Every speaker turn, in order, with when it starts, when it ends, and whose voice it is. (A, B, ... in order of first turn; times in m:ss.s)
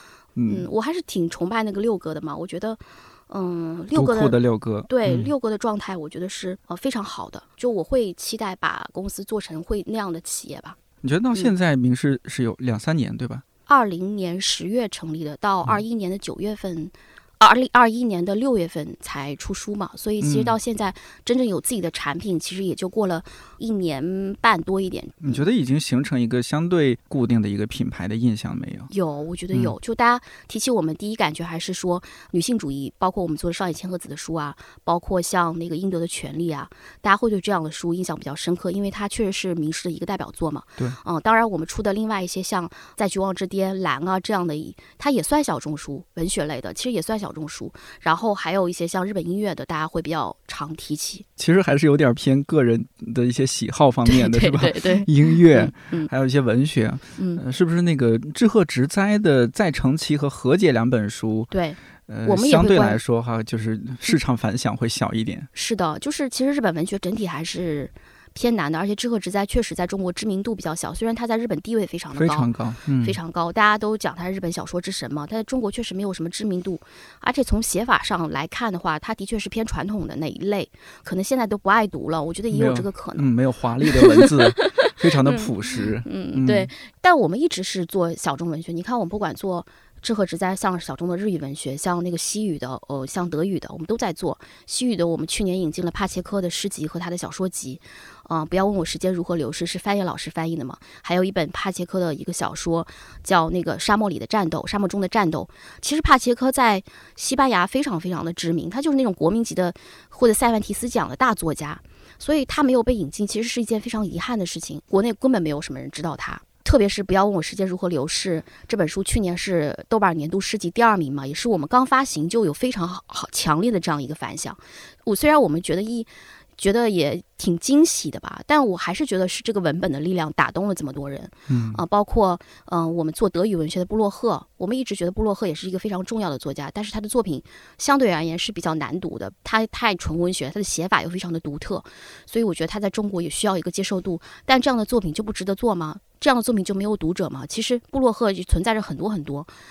0:00.4-0:00.7 A
0:00.5-0:10.8 B
0:03.9-0:05.3 A
0:11.0-0:13.4 A
0:13.7-0:25.4 B
0:20.2-0:20.6 A
0:25.2-0:28.9 A
0:28.9-0:51.3 B
0:51.4-1:01.5 A
0:54.0-0:56.1 B
0:57.2-0:57.4 B
1:01.5-1:03.0 B
1:02.1-1:05.5 A
1:05.5-1:12.5 B
1:12.1-1:13.2 A
1:13.0-1:23.3 B
1:22.5-1:26.7 A
1:23.8-1:25.5 B
1:26.0-2:29.5 B
2:11.5-2:11.8 A